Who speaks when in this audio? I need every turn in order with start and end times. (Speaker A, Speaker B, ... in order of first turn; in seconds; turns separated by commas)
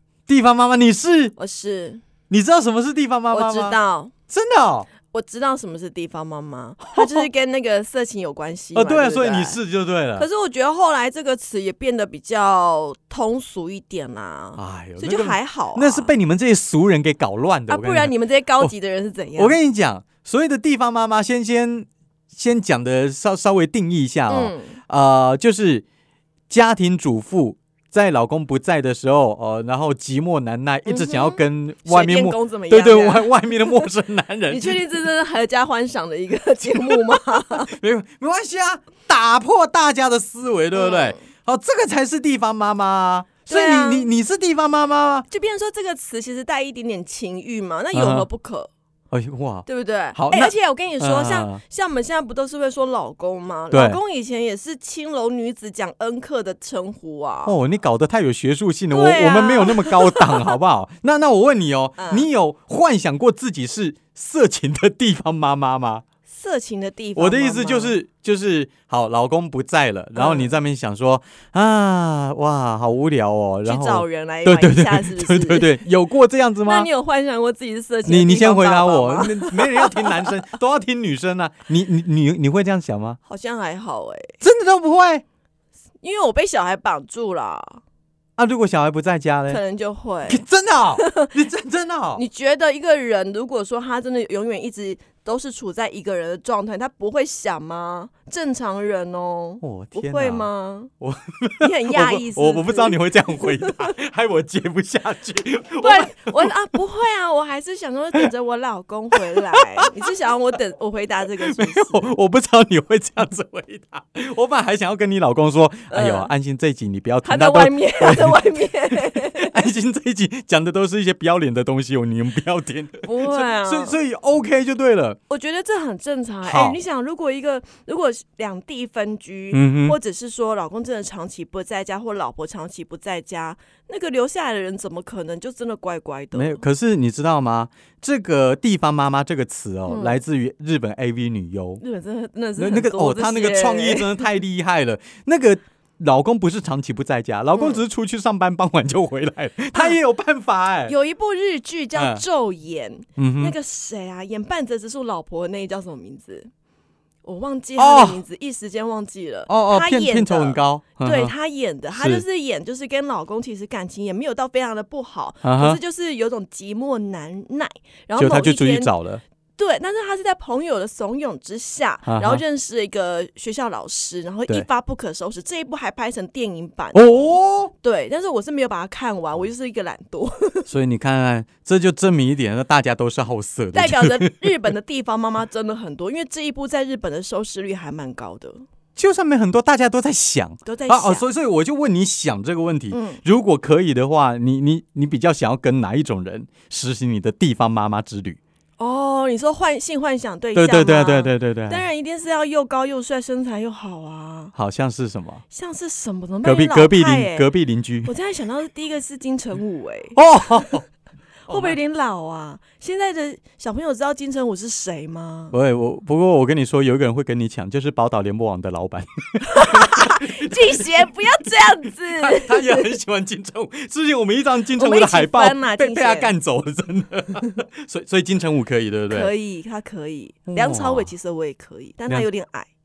Speaker A: 0.3-1.4, Speaker B: 1.4-2.0, Speaker A: 2.3-3.8, Speaker B: 3.3-4.1, Speaker A: 4.3-4.9, Speaker B: 5.1-9.6, Speaker A: 6.8-7.3, Speaker A: 8.8-10.3, Speaker B: 10.2-16.1, Speaker A: 14.6-18.7, Speaker B: 17.7-19.6, Speaker A: 19.4-25.9, Speaker B: 24.3-24.8, Speaker A: 26.5-34.8, Speaker B: 30.9-33.9, Speaker B: 34.5-37.7, Speaker A: 36.7-45.3, Speaker B: 40.8-41.2, Speaker B: 43.5-44.1, Speaker B: 45.3-48.7, Speaker A: 47.9-48.3, Speaker A: 49.1-51.6, Speaker B: 49.7-57.5, Speaker A: 53.7-54.0, Speaker A: 57.4-66.0, Speaker B: 58.9-60.5, Speaker B: 62.0-62.3, Speaker B: 66.3-67.9, Speaker A: 67.2-76.9, Speaker B: 70.2-70.5, Speaker B: 73.7-75.7, Speaker B: 76.7-80.3, Speaker A: 78.1-83.2, Speaker B: 83.3-84.4, Speaker A: 84.4-85.2, Speaker B: 86.0-87.8, Speaker A: 88.4-89.6, Speaker B: 89.5-90.4, Speaker A: 90.3-92.2, Speaker B: 91.0-91.3, Speaker B: 92.2-100.9, Speaker A: 99.6-100.5, Speaker A: 101.0-106.5, Speaker B: 101.6-103.9, Speaker B: 105.8-112.1, Speaker A: 109.2-109.9, Speaker A: 111.4-125.2, Speaker B: 115.9-116.3, Speaker B: 117.2-119.6, Speaker B: 123.0-124.0, Speaker B: 125.3-136.6, Speaker A: 126.4-126.8, Speaker A: 129.5-130.0, Speaker A: 136.3-141.8, Speaker B: 139.9-140.2, Speaker B: 141.8-144.1, Speaker A: 142.6-150.9, Speaker B: 147.5-147.8, Speaker B: 150.9-156.5, Speaker A: 151.9-152.2, Speaker A: 153.2-153.6, Speaker B: 157.2-168.9, Speaker A: 157.8-158.2, Speaker A: 159.5-161.3, Speaker A: 161.9-162.2, Speaker A: 165.4-165.8, Speaker A: 168.2-169.2, Speaker B: 169.6-180.7, Speaker A: 172.1-172.4, Speaker A: 176.9-177.7, Speaker A: 180.7-184.7, Speaker B: 183.7-188.6, Speaker A: 189.0-198.4, Speaker B: 190.7-191.2, Speaker B: 192.9-193.2, Speaker B: 198.8-204.5, Speaker A: 200.6-201.8, Speaker A: 204.5-205.4, Speaker B: 205.5-207.5, Speaker A: 206.4-208.1, Speaker B: 208.1-210.7, Speaker A: 210.2-210.8, Speaker B: 211.5-215.5, Speaker A: 211.5-211.8, Speaker A: 215.5-221.0, Speaker B: 219.5-222.9, Speaker A: 222.1-229.3, Speaker B: 224.8-226.3, Speaker B: 229.1-232.7, Speaker A: 230.5-231.1